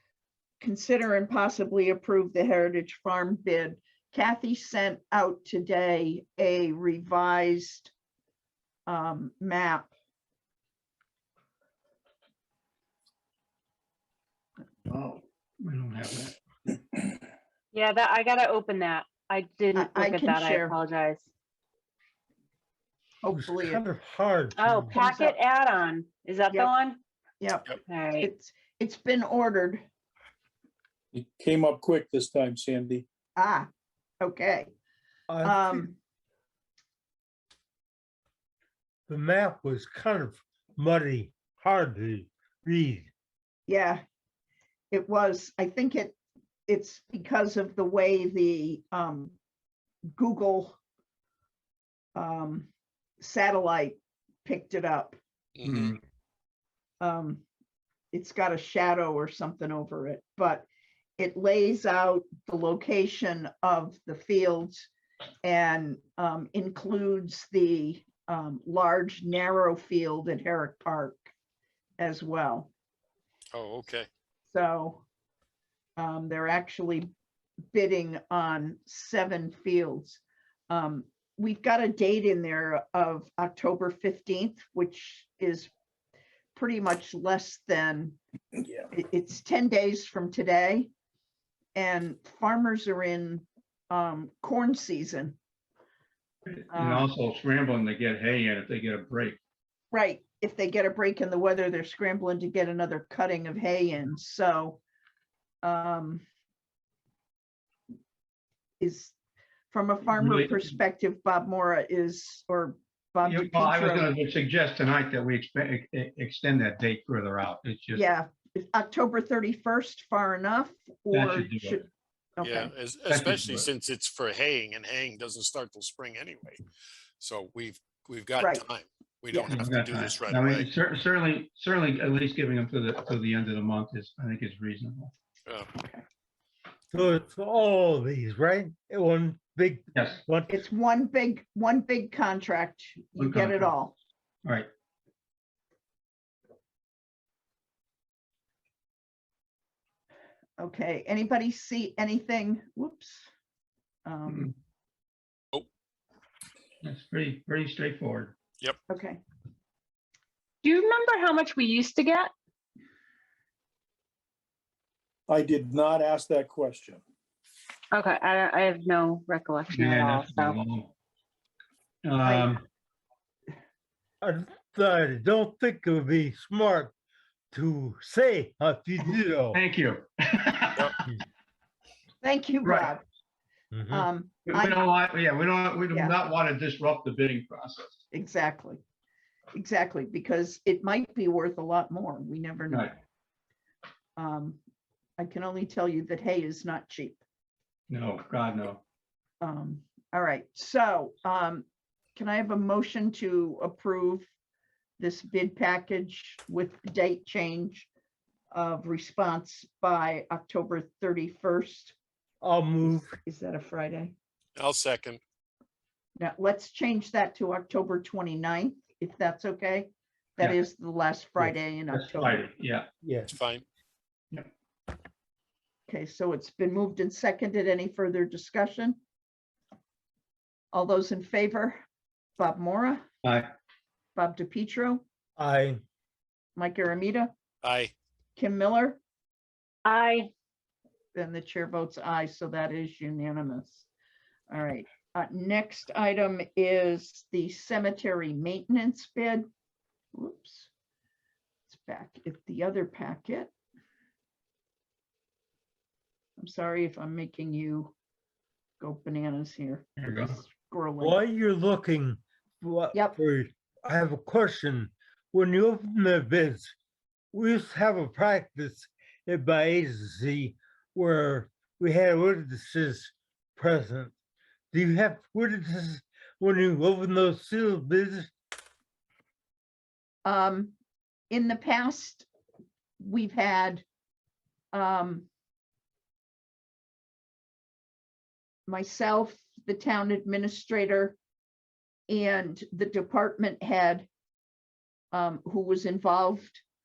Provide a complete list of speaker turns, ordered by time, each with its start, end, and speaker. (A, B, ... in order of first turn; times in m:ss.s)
0:00.6-0:07.9 A
0:08.9-0:09.9 A
0:14.9-0:16.4 B
0:17.7-0:21.3 C
0:19.7-0:20.8 A
0:23.2-0:23.8 A
0:23.3-0:25.0 D
0:24.6-0:27.0 C
0:24.9-0:25.4 A
0:27.4-0:29.8 A
0:27.9-0:28.3 C
0:31.1-0:33.1 E
0:33.4-0:33.7 A
0:34.2-0:34.7 A
0:35.3-0:35.9 D
0:35.4-0:36.0 A
0:39.1-0:43.1 D
0:43.7-0:44.0 A
0:44.9-0:46.2 A
0:46.7-0:49.4 A
0:50.1-0:50.8 A
0:52.2-0:55.2 A
0:55.6-0:56.0 F
0:55.6-0:56.0 B
0:57.0-0:57.4 A
0:58.1-1:00.7 A
1:01.2-1:04.9 A
1:05.4-1:11.3 A
1:12.0-1:12.7 A
1:13.5-1:14.1 F
1:14.5-1:15.0 A
1:16.0-1:17.1 A
1:17.7-1:25.7 A
1:26.6-1:28.2 A
1:28.9-1:30.9 A
1:31.8-1:35.4 A
1:36.5-1:39.4 B
1:36.7-1:37.1 A
1:39.9-1:44.8 A
1:45.6-1:46.2 A
1:48.8-1:49.2 A
1:49.7-1:54.1 A
1:50.1-1:50.7 B
1:53.2-1:58.0 B
1:58.0-2:02.7 A
2:01.1-2:01.8 B
2:02.4-2:06.6 F
2:03.1-2:03.7 B
2:07.2-2:10.7 F
2:08.4-2:08.6 A
2:09.3-2:09.6 A
2:09.5-2:15.1 B
2:16.9-2:20.6 D
2:19.9-2:20.2 B
2:20.5-2:24.0 A
2:23.2-2:23.7 B
2:30.6-2:33.3 A
2:34.1-2:34.6 A
2:36.8-2:38.4 B
2:38.9-2:39.2 A
2:40.6-2:42.3 C
2:45.3-2:47.0 E
2:47.9-2:50.6 C
2:49.7-2:50.9 B
2:52.0-2:52.6 B
2:52.2-2:52.6 A
2:54.2-2:56.9 D
2:57.5-2:59.6 D
2:59.5-3:01.0 B
3:02.2-3:03.0 A
3:02.6-3:02.9 B
3:03.7-3:04.1 D
3:03.9-3:04.8 A
3:04.5-3:08.0 B
3:08.1-3:08.8 A
3:09.5-3:12.9 A
3:14.2-3:14.6 A
3:15.2-3:17.2 A
3:17.9-3:18.8 B
3:19.4-3:24.3 A
3:25.0-3:27.9 A
3:28.5-3:32.0 A
3:32.4-3:33.2 D
3:32.8-3:34.2 A
3:34.6-3:35.2 F
3:36.2-3:42.4 A
3:41.9-3:42.9 B
3:43.0-3:43.3 D
3:43.3-3:43.6 F
3:45.9-3:49.0 A
3:50.7-3:51.8 A
3:52.4-3:53.0 A
3:53.2-3:53.5 B
3:54.2-3:55.0 A
3:55.4-3:55.8 D
3:56.6-3:57.3 A
3:57.6-3:57.9 F
3:58.4-3:59.0 A
3:59.9-4:00.3 C
4:01.2-4:03.9 A
4:04.5-4:09.5 A
4:10.1-4:10.7 A
4:11.7-4:13.5 A
4:16.4-4:18.0 A
4:18.8-4:21.2 A
4:20.0-4:20.4 B
4:21.0-4:26.7 D
4:27.3-4:34.1 D
4:34.7-4:38.3 D
4:40.2-4:40.7 A
4:41.3-4:42.3 A
4:43.0-4:43.8 A
4:44.7-4:45.3 A
4:48.7-4:51.2 A
4:52.1-4:54.1 A
4:55.1-4:56.6 A